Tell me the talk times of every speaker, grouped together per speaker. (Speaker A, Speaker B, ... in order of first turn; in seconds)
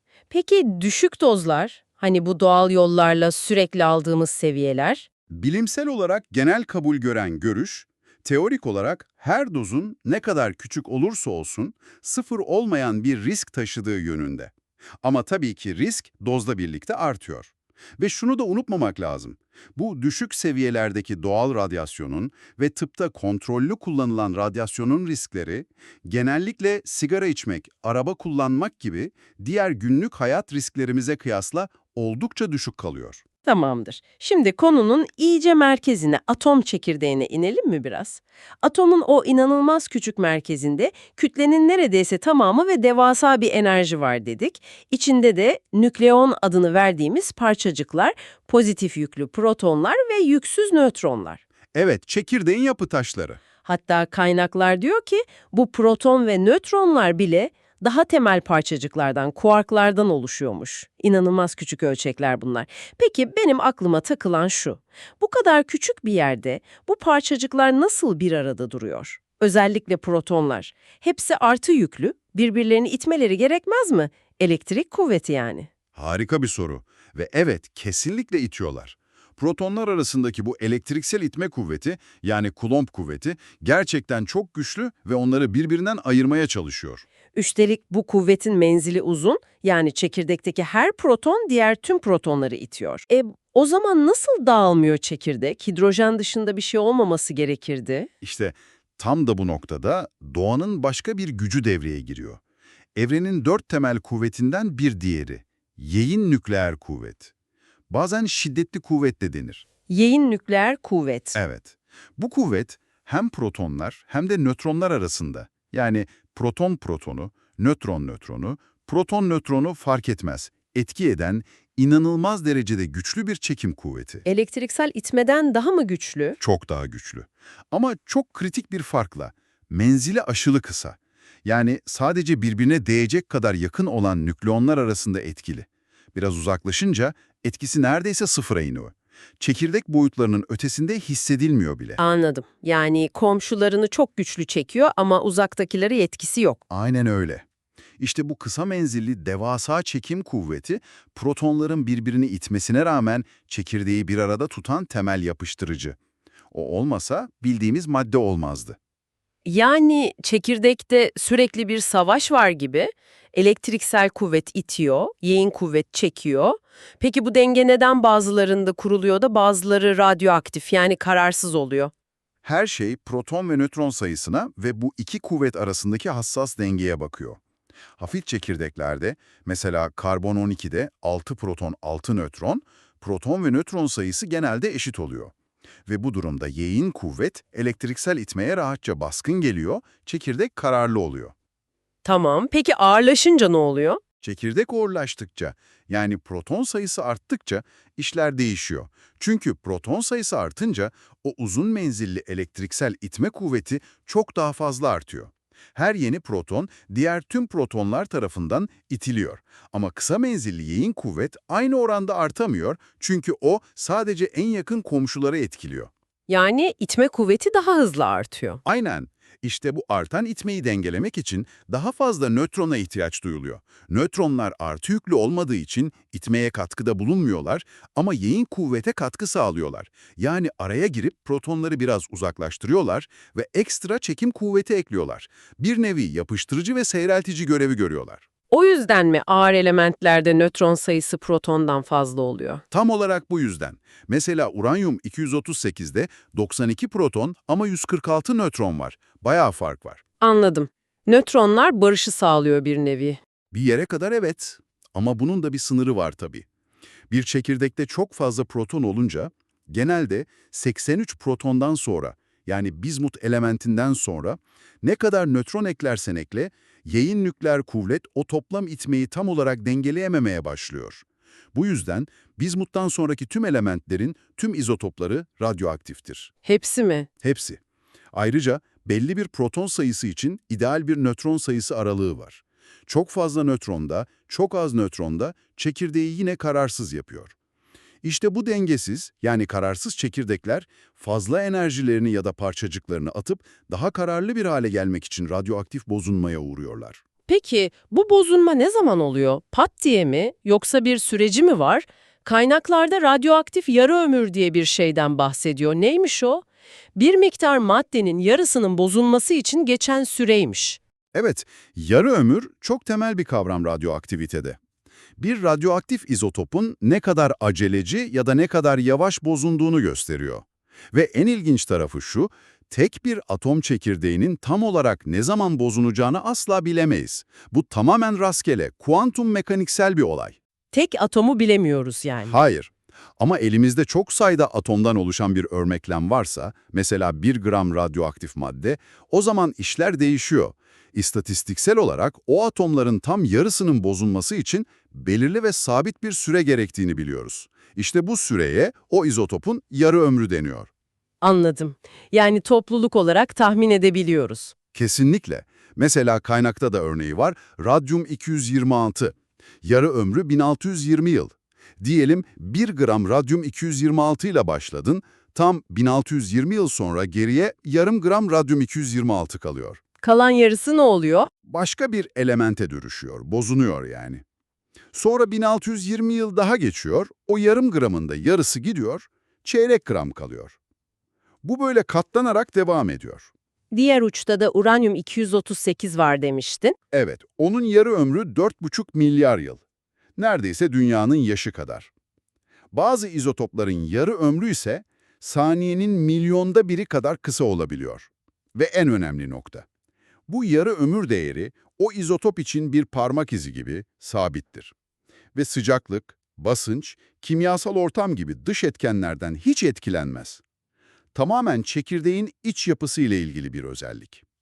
Speaker A: 0.3-5.0, 33.4-51.4, 53.6-75.7, 87.3-98.1, 109.9-111.4, 124.2-126.4, 142.0-146.6, 159.4-171.9, 192.0-194.0, 216.3-218.6, 238.5-242.6, 250.2-253.2, 276.4-277.1, 297.3-306.4, 306.9-310.8, 330.7-332.4, 351.2-354.5, 370.0-371.3, 383.7-386.8
Speaker B: 5.3-33.2, 51.7-53.4, 75.9-87.0, 98.2-102.4, 102.9-107.3, 107.9-109.6, 111.3-124.2, 126.4-142.0, 146.7-147.4, 148.0-156.0, 156.5-158.8, 172.4-177.4, 178.0-185.3, 185.8-191.3, 194.2-215.9, 218.6-238.2, 242.7-250.0, 253.5-256.4, 257.1-276.3, 277.2-277.6, 278.1-287.3, 288.0-297.0, 311.1-314.6, 315.2-330.4, 332.3-350.7, 354.7-369.8, 371.4-374.2, 374.9-380.6, 381.4-383.3, 386.9-389.6, 390.2-391.9, 392.7-399.6, 400.3-404.7, 405.3-410.4, 411.1-414.2